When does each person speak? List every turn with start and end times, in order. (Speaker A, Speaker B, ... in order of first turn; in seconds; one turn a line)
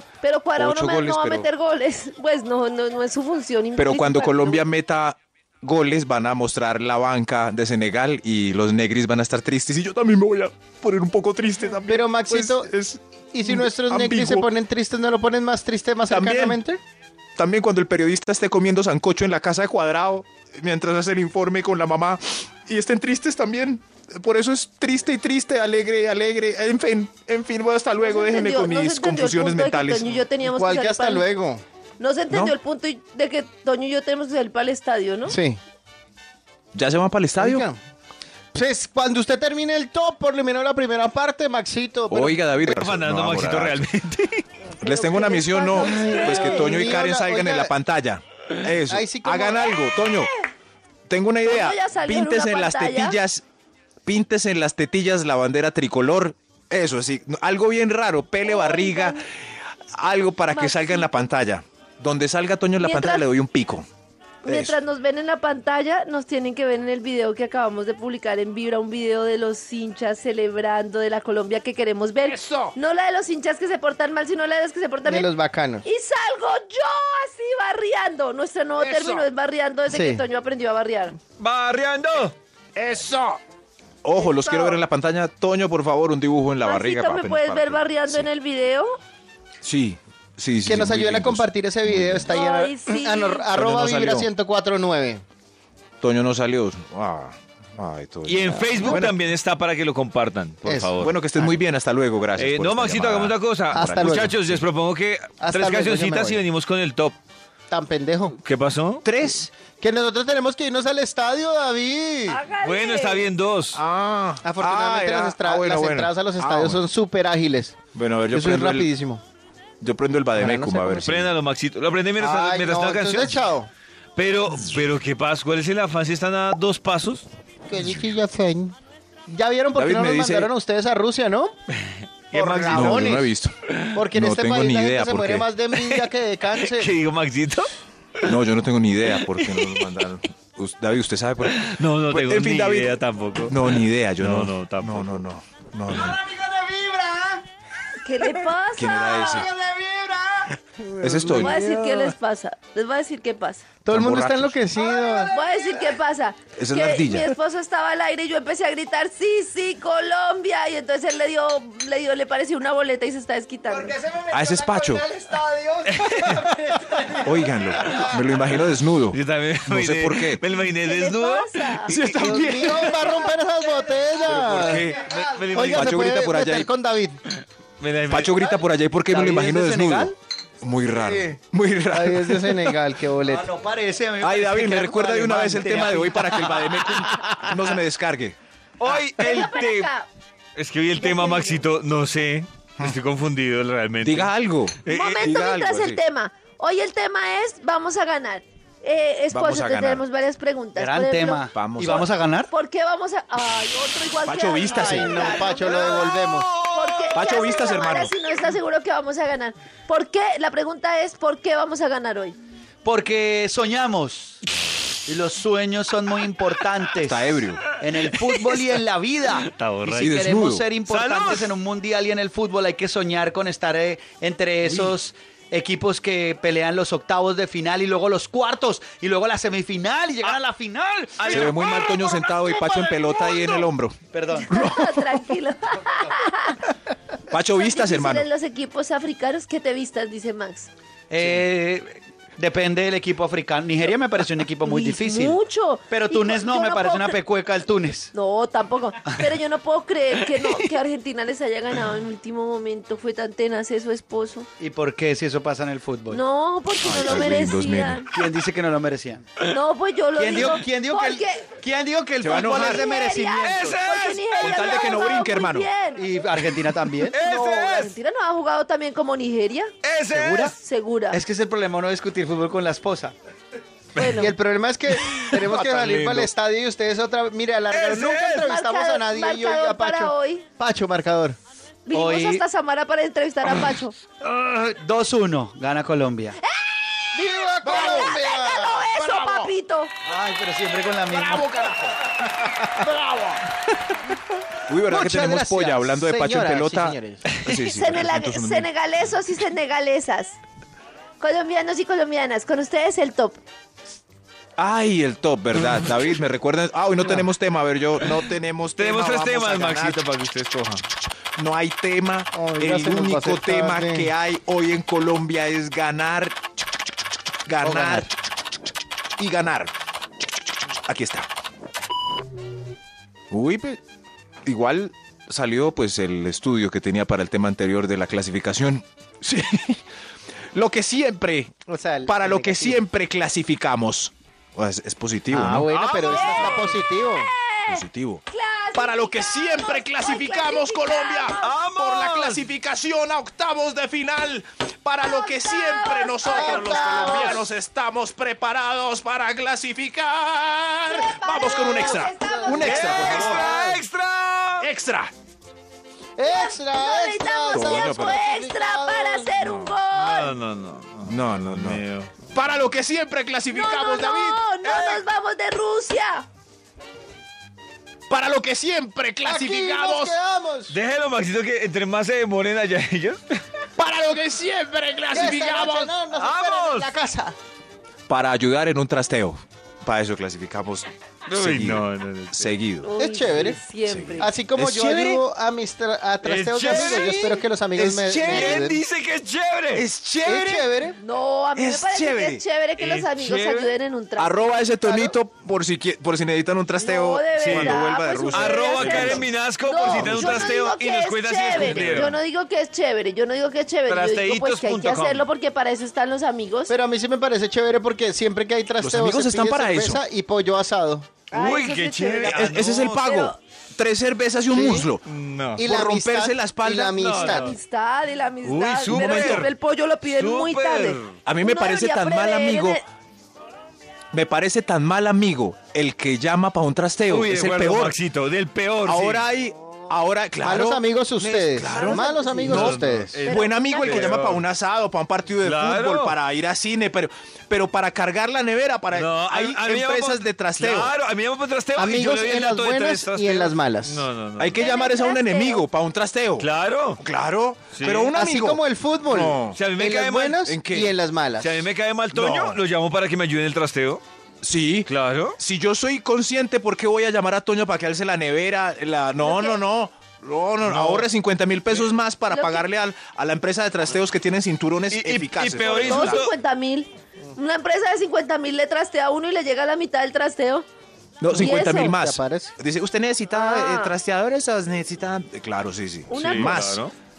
Speaker A: 0.2-4.7
Speaker B: 0.6-1.5
Speaker B: 3.8-14.5
Speaker C: 11.8-12.7
Speaker C: 13.3-16.8
Speaker B: 16.1-16.6
Speaker B: 17.4-30.2
Speaker A: 28.0-31.2
Speaker C: 30.4-31.6
Speaker A: 32.0-35.4
Speaker C: 35.3-35.6
Speaker B: 36.7-37.6
Speaker C: 37.4-37.8
Speaker C: 38.5-42.4
Speaker B: 42.1-43.8
Speaker D: 42.6-44.4
Speaker A: 44.8-46.9
Speaker B: 44.8-50.3
Speaker C: 45.7-47.7
Speaker C: 48.9-49.8
Speaker B: 51.1-53.4
Speaker A: 51.4-53.2
Speaker B: 54.0-59.2
Speaker A: 58.4-59.2
Speaker B: 59.9-63.9
Speaker A: 60.5-61.2
Speaker A: 62.8-63.2
Speaker A: 64.4-75.3
Speaker B: 64.5-64.7
Speaker B: 72.3-72.7
Speaker C: 75.0-75.8
Speaker A: 75.8-81.2
Speaker B: 78.8-79.2
Speaker C: 79.9-80.2
Speaker D: 81.4-82.3
Speaker B: 82.8-83.4
Speaker B: 84.0-88.2
Speaker A: 84.2-84.8
Speaker A: 86.6-89.0
Speaker B: 89.6-92.3
Speaker C: 90.6-95.2
Speaker A: 92.3-93.5
Speaker B: 93.5-94.3
Speaker B: 96.0-99.1
Speaker D: 98.2-101.1
Speaker C: 100.6-101.5
Speaker B: 101.0-103.3
Speaker D: 102.4-107.2
Speaker C: 103.7-104.4
Speaker C: 105.4-106.4
Speaker C: 107.7-108.3
Speaker D: 108.4-109.1
Speaker B: 109.0-109.5
Speaker C: 109.8-112.4
Speaker A: 112.3-113.3
Speaker D: 112.6-113.8
Speaker B: 113.7-116.8
Speaker C: 114.4-117.8
Speaker B: 117.9-118.9
Speaker C: 118.3-119.2
Speaker B: 119.8-121.3
Speaker C: 120.3-121.1
Speaker D: 121.0-123.4
Speaker C: 122.2-123.7
Speaker D: 124.2-127.3
Speaker C: 127.7-128.8
Speaker C: 129.3-131.5
Speaker B: 129.8-130.5
Speaker D: 131.8-133.8
Speaker C: 132.3-133.3
Speaker B: 132.6-133.5
Speaker C: 133.9-136.9
Speaker B: 134.1-135.5
Speaker D: 136.6-137.7
Speaker B: 138.2-146.2
Speaker D: 139.4-139.9
Speaker D: 141.6-145.2
Speaker C: 145.9-147.4
Speaker A: 148.0-149.5
Speaker B: 148.7-149.5
Speaker C: 149.1-152.1
Speaker B: 151.0-151.6
Speaker A: 151.3-153.6
Speaker C: 153.8-155.3
Speaker B: 153.9-154.6
Speaker A: 155.3-163.9
Speaker B: 156.6-157.3
Speaker C: 163.7-168.3
Speaker B: 164.3-165.0
Speaker D: 165.9-166.4
Speaker B: 167.2-170.4
Speaker D: 169.1-171.9
Speaker A: 170.8-171.9
Speaker B: 171.9-173.3
Speaker C: 172.0-177.2
Speaker B: 174.2-176.7
Speaker D: 174.9-176.2
Speaker D: 177.8-178.4
Speaker B: 178.1-182.8
Speaker E: 179.1-180.1
Speaker C: 180.9-181.4
Speaker C: 181.9-183.5
Speaker E: 183.2-187.4
Speaker B: 184.2-188.4
Speaker D: 188.8-189.9
Speaker A: 189.2-190.1
Speaker D: 190.6-194.3
Speaker A: 190.9-191.6
Speaker B: 194.0-196.0
Speaker D: 194.8-195.2
Speaker A: 194.8-201.4
Speaker B: 199.3-200.0
Speaker E: 200.8-202.5
Speaker B: 201.5-202.1
Speaker A: 202.5-206.1
Speaker B: 204.2-205.4
Speaker C: 204.7-206.5
Speaker D: 205.6-207.1
Speaker A: 206.7-212.4
Speaker B: 207.1-208.1
Speaker E: 212.8-214.4
Speaker E: 215.1-231.5
Speaker B: 217.0-217.8
Speaker D: 218.0-218.6
Speaker D: 219.4-220.2
Speaker B: 220.0-220.6
Speaker D: 220.8-221.5
Speaker D: 231.2-231.7
Speaker B: 231.3-234.0
Speaker A: 231.5-233.7
Speaker E: 234.1-234.5
Speaker A: 234.4-236.6
Speaker B: 234.5-235.3
Speaker E: 235.8-236.1
Speaker B: 237.3-238.3
Speaker A: 237.5-240.7
Speaker E: 241.1-245.4
Speaker A: 244.6-247.2
Speaker E: 245.9-248.1
Speaker A: 248.1-254.5
Speaker E: 254.6-256.2
Speaker A: 256.1-258.1
Speaker B: 256.8-258.0
Speaker E: 258.1-259.3
Speaker A: 259.4-261.5
Speaker E: 260.1-263.8
Speaker B: 262.2-262.9
Speaker A: 262.5-266.0
Speaker D: 263.4-264.4
Speaker B: 264.4-265.7
Speaker E: 266.0-267.2
Speaker D: 267.1-267.9
Speaker A: 267.2-269.7
Speaker D: 269.8-270.5
Speaker E: 270.1-270.5
Speaker A: 270.5-271.2
Speaker E: 271.1-273.1
Speaker A: 273.9-274.3
Speaker D: 274.0-274.3
Speaker C: 274.1-281.4
Speaker D: 274.9-276.3
Speaker D: 277.7-278.5
Speaker A: 278.3-280.4
Speaker A: 281.9-284.0
Speaker E: 281.9-282.4
Speaker E: 284.2-286.4
Speaker A: 286.4-289.9
Speaker C: 287.1-288.8
Speaker B: 287.6-288.2
Speaker B: 288.8-289.5
Speaker E: 290.0-291.5
Speaker B: 291.1-293.4
Speaker C: 292.8-293.3
Speaker B: 294.7-298.7
Speaker C: 294.8-297.2
Speaker A: 297.4-300.4
Speaker A: 301.2-303.4
Speaker B: 304.6-310.0
Speaker D: 308.8-310.8
Speaker B: 311.4-316.4
Speaker C: 312.3-314.1
Speaker B: 317.4-318.1
Speaker C: 317.6-318.1
Speaker B: 319.2-319.7
Speaker B: 320.9-321.3
Speaker B: 323.3-323.8
Speaker B: 324.4-329.8
Speaker B: 330.5-335.7
Speaker C: 331.7-332.8
Speaker C: 335.3-337.3
Speaker D: 335.7-336.7
Speaker A: 336.1-341.5
Speaker B: 337.7-338.2
Speaker B: 338.7-353.5
Speaker D: 341.4-342.4
Speaker A: 345.0-347.4
Speaker C: 346.2-347.4
Speaker A: 350.9-353.4
Speaker C: 352.2-353.8
Speaker D: 352.6-354.7
Speaker B: 354.6-355.1
Speaker C: 356.2-359.3
Speaker A: 356.2-360.3
Speaker B: 357.5-358.2
Speaker B: 359.3-359.8
Speaker D: 359.9-362.1
Speaker B: 361.0-361.8
Speaker B: 362.3-365.0
Speaker A: 363.5-366.2
Speaker B: 368.1-370.1
Speaker C: 369.2-370.8
Speaker D: 370.7-373.2
Speaker B: 373.8-375.9
Speaker C: 375.1-377.4
Speaker D: 376.1-376.9
Speaker B: 378.1-382.9
Speaker D: 381.3-382.6
Speaker A: 382.8-384.3
Speaker C: 383.0-383.6
Speaker B: 383.9-385.2
Speaker C: 384.1-388.8
Speaker D: 386.2-387.4
Speaker B: 386.6-388.7
Speaker D: 388.2-389.9
Speaker B: 389.7-390.7
Speaker C: 390.2-391.0
Speaker A: 391.0-395.0
Speaker B: 391.6-392.4
Speaker D: 392.8-393.7
Speaker B: 394.2-400.5
Speaker A: 396.8-406.7
Speaker D: 397.4-402.2
Speaker B: 401.6-402.2
Speaker D: 403.9-405.2
Speaker C: 406.7-411.1
Speaker B: 408.8-410.0
Speaker A: 411.3-413.4
Speaker D: 411.3-412.9
Speaker B: 412.2-415.0
Speaker C: 414.5-414.9
Speaker D: 415.1-415.6
Speaker C: 415.6-417.5
Speaker B: 415.6-417.1
Speaker D: 416.9-417.5
Speaker A: 417.2-422.8
Speaker D: 418.4-419.5
Speaker B: 418.9-419.5
Speaker D: 420.0-421.2
Speaker B: 421.2-422.8
Speaker B: 424.1-427.9
Speaker D: 427.1-429.2
Speaker B: 428.8-440.9
Speaker C: 430.4-433.2
Speaker A: 431.6-432.7
Speaker D: 432.5-434.4
Speaker A: 433.2-434.2
Speaker D: 435.4-436.2
Speaker D: 438.9-444.6
Speaker C: 441.7-444.1
Speaker B: 444.4-446.5
Speaker A: 444.6-445.6
Speaker D: 446.4-447.0
Speaker B: 447.0-449.6
Speaker D: 447.7-448.1
Speaker C: 448.1-451.6
Speaker D: 449.5-450.5
Speaker B: 450.4-450.9
Speaker D: 451.4-454.0
Speaker B: 452.1-452.6
Speaker B: 454.4-466.2
Speaker D: 454.9-455.4
Speaker A: 459.2-459.6
Speaker D: 460.6-461.1
Speaker A: 462.3-462.6
Speaker D: 464.9-466.3
Speaker A: 465.7-470.6
Speaker B: 471.2-476.8
Speaker A: 471.3-471.9
Speaker C: 471.3-472.5
Speaker A: 473.3-473.9
Speaker A: 476.1-476.6
Speaker D: 476.1-476.9